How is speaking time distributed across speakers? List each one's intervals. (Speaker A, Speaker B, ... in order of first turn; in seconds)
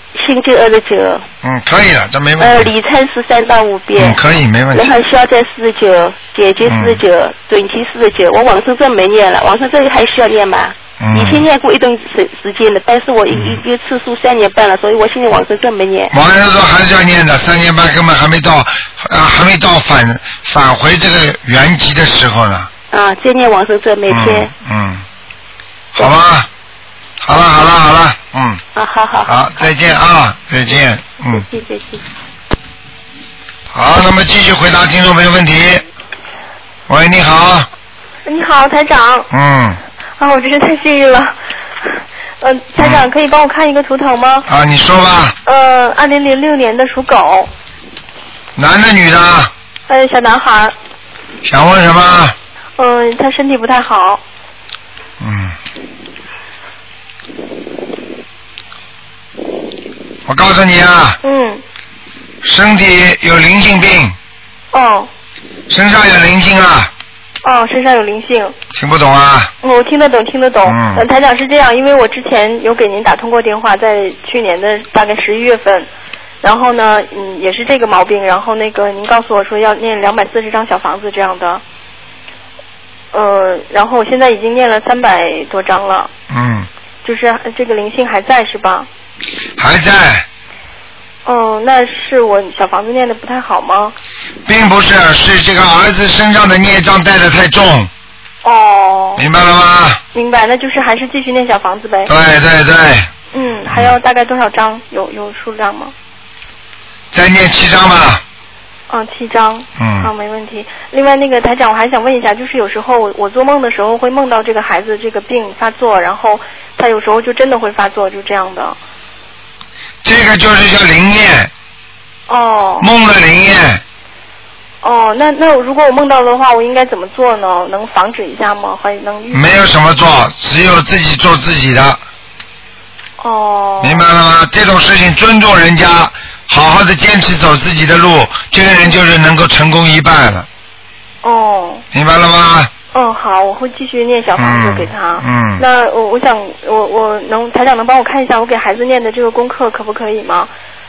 Speaker A: 0.2-1.2, 2.4-4.2, 4.7-16.1, 22.9-24.5, 28.8-29.7, 31.3-32.0
Speaker B: 1.4-2.7, 4.0-5.0, 6.6-7.0, 11.0-11.5, 13.3-13.6, 16.1-22.7, 24.1-25.0, 25.9-26.5, 27.2-28.6, 29.3-31.4, 33.7-35.8, 36.9-37.7, 39.3-39.8, 42.8-43.1, 44.5-45.4, 48.6-49.5, 51.4-52.4, 55.2-55.6, 60.3-61.2, 62.4-64.2, 65.7-66.9, 68.7-69.5, 70.6-71.0, 86.3-86.7, 89.6-90.3, 94.5-97.9, 99.2-100.0, 102.1-103.1, 107.1-108.2, 109.8-110.1, 120.0-121.5, 122.8-123.8, 129.3-132.0, 133.8-140.5, 141.9-142.7, 144.4-145.6
Speaker C: 38.2-39.3, 40.2-44.5, 45.5-47.5, 49.9-50.7, 52.8-54.2, 61.2-61.6, 64.7-65.1, 67.4-68.5, 69.6-75.9, 76.4-81.6, 83.1-86.1, 87.0-88.9, 91.2-94.0, 98.4-99.2, 100.1-102.1, 103.3-105.9, 108.9-118.8, 122.3-122.9, 124.8-129.6, 133.2-134.1, 141.2-141.8, 142.9-150.5